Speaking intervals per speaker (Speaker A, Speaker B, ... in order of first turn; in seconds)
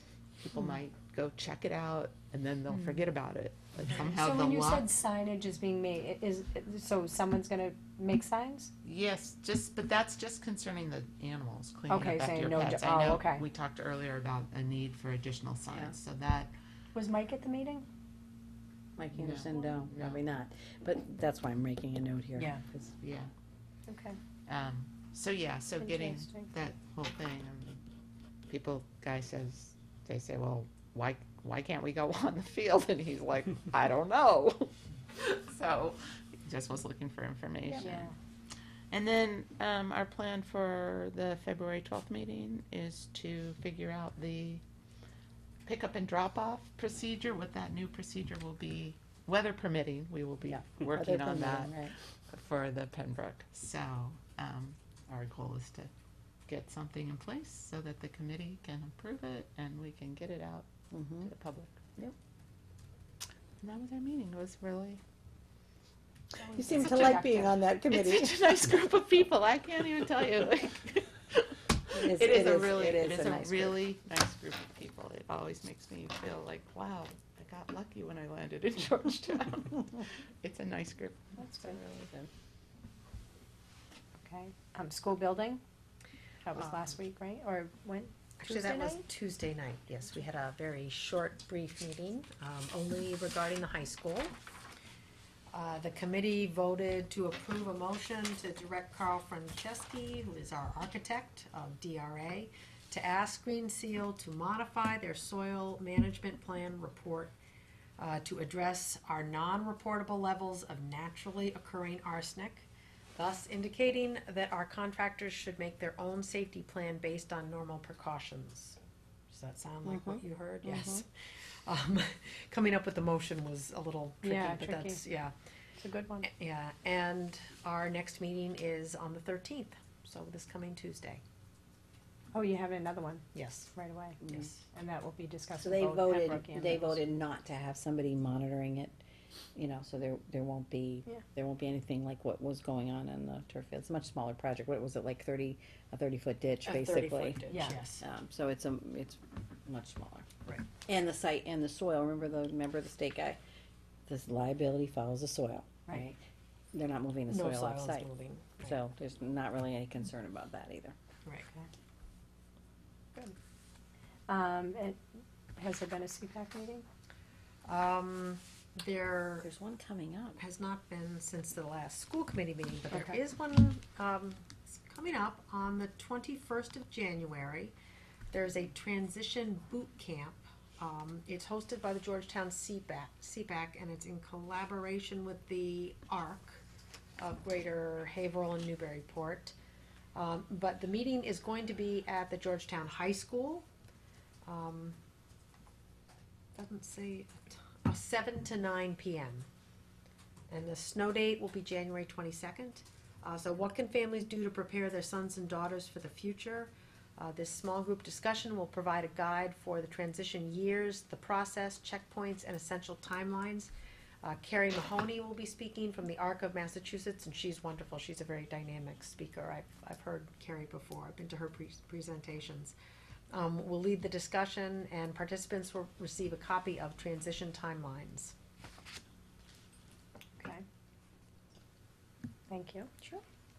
Speaker A: 0.4-4.9, 8.8-16.5, 19.1-20.2, 22.9-23.3, 24.5-27.8, 28.5-38.1, 38.9-44.6, 45.7-55.9, 56.5-61.9, 63.6-65.0, 66.7-82.3
Speaker B: 4.1-8.7, 11.9-13.4, 16.9-17.9, 22.4-22.6, 23.9-24.2, 25.8-26.5, 37.7-38.1, 66.4-67.6, 81.4-81.8, 84.2-85.6, 86.4-89.0, 124.2-125.0, 125.8-126.3, 132.3-134.2, 134.7-137.0, 147.5-147.8, 164.3-165.0, 165.6-166.8, 230.4-230.6, 232.5-233.1
Speaker C: 19.0-22.9, 50.4-52.0, 60.9-61.3, 66.5-68.4, 71.9-73.8, 119.8-121.0, 135.6-139.0, 139.6-147.4, 148.0-150.2, 150.8-153.4, 154.1-156.2, 156.7-158.1, 158.7-161.0, 169.4-170.4
Speaker D: 88.4-94.4, 95.5-107.3, 108.0-118.8, 119.3-121.1, 121.7-125.3, 126.2-131.2, 133.3-134.6, 146.6-148.1, 157.3-158.8, 161.2-161.7, 167.7-169.5, 170.4-177.7, 178.3-186.6, 187.2-189.6, 190.2-193.7, 194.5-195.0, 196.6-199.5, 200.5-213.7, 214.2-222.8, 223.3-228.3